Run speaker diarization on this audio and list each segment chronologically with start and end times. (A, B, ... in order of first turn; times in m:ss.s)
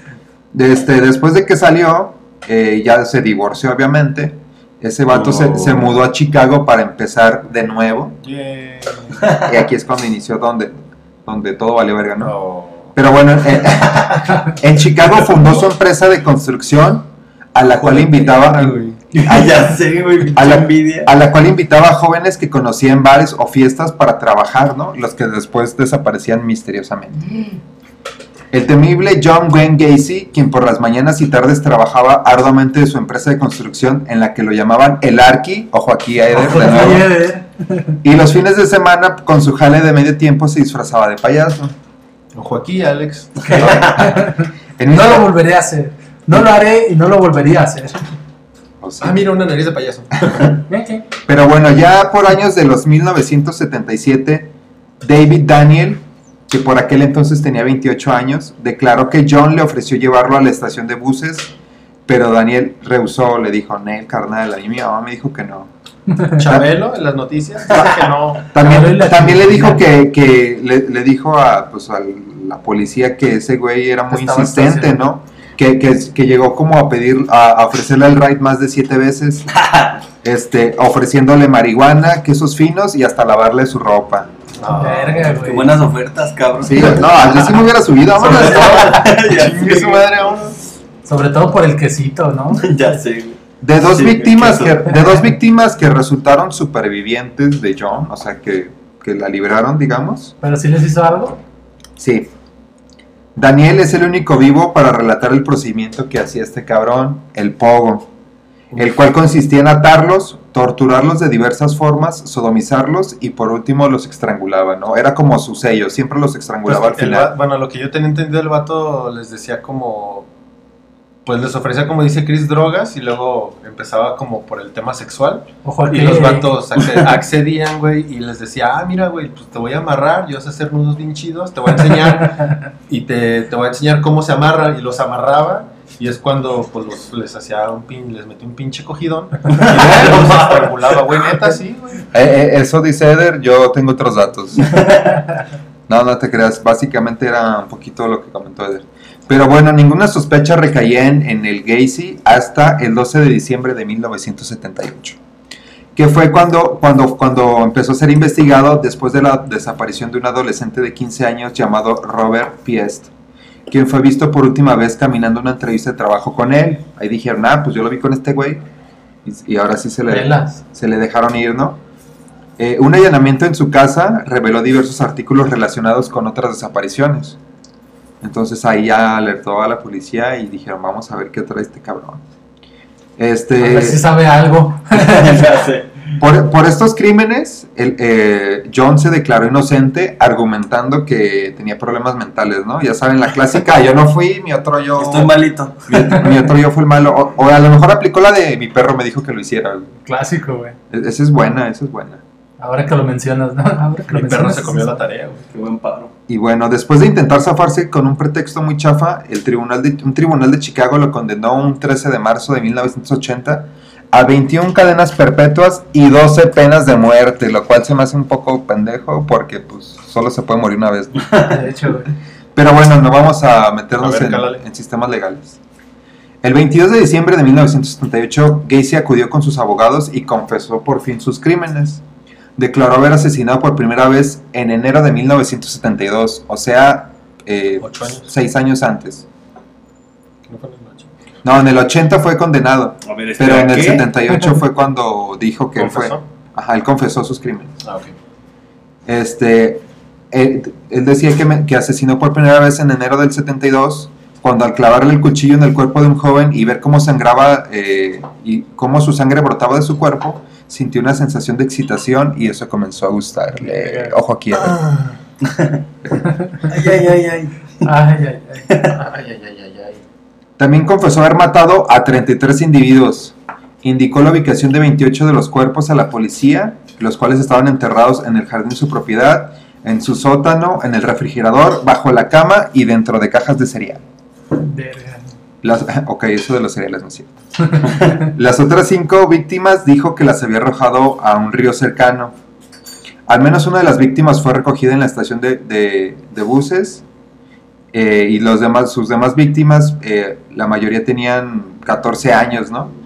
0:00.5-0:08.2 A
0:05.1-0:05.9 B
0:08.2-0:09.4 B
0:09.4-0:12.3 A
0:12.2-0:12.9 B
0:12.9-0:19.6 A
0:17.8-0:19.0 B
0:19.1-0:21.1 C
0:20.3-0:27.4 A
0:28.5-0:37.1 A
0:36.3-0:38.0 D
0:38.0-0:41.7 A
0:42.3-0:44.0 B
0:43.4-0:48.1 D
0:43.7-0:44.3 A
0:44.8-0:45.3 A
0:48.8-0:49.2 A
0:49.0-0:50.6 B
0:50.7-0:51.0 D
0:51.2-1:01.5 A
1:02.1-1:05.7 A
1:06.1-1:06.4 D
1:06.4-1:08.5 B
1:06.4-1:06.7 A
1:07.7-1:19.5 A
1:08.5-1:09.8 D
1:14.1-1:15.0 D
1:19.5-1:20.0 C
1:20.2-1:24.3 A
1:24.6-1:25.3 B
1:24.7-1:25.8 D
1:25.4-1:27.4 C
1:26.6-1:29.0 A
1:28.2-1:29.1 D
1:28.2-1:30.1 C
1:28.9-1:30.6 B
1:31.0-1:33.0 D
1:32.6-1:34.8 C
1:33.6-1:40.3 A
1:40.4-1:41.4 D
1:42.0-1:42.3 A
1:43.4-1:48.1 A
1:48.7-1:57.3 A
1:56.6-2:00.3 B
2:01.2-2:22.1 B
2:05.6-2:06.5 D
2:19.5-2:20.8 C
2:19.8-2:20.1 A
2:22.1-2:24.9 A
2:24.8-2:25.0 C
2:25.9-2:35.2 A
2:36.0-2:43.1 A
2:43.7-2:48.6 A
2:49.2-2:51.8 A
2:50.1-2:50.6 D
2:52.6-2:57.4 A
2:58.2-3:02.2 A
3:03.2-3:04.0 A
3:03.6-3:05.6 D
3:04.9-3:05.9 C
3:06.2-3:15.3 A
3:15.0-3:16.4 C
3:16.0-3:19.9 A
3:20.0-3:20.8 D
3:20.9-3:22.2 A
3:22.6-3:25.0 D
3:24.1-3:25.4 B
3:25.5-3:26.1 C
3:26.3-3:41.5 A
3:41.4-3:42.1 D
3:42.5-3:45.6 A
3:44.0-3:44.6 B
3:46.4-3:52.0 A
3:52.6-3:59.2 A
3:57.8-3:58.3 B
4:00.5-4:01.1 B
4:01.4-4:07.8 A
4:03.0-4:04.1 C
4:05.8-4:06.2 B
4:07.8-4:08.1 B
4:09.0-4:24.8 A
4:24.7-4:25.1 B
4:26.4-4:26.8 D
4:26.6-4:27.9 C
4:27.8-4:28.7 D
4:28.8-4:30.0 B
4:30.6-4:44.0 A
4:44.6-4:45.2 D
4:45.6-4:52.3 A
4:53.3-4:57.0 A
4:57.9-5:02.9 A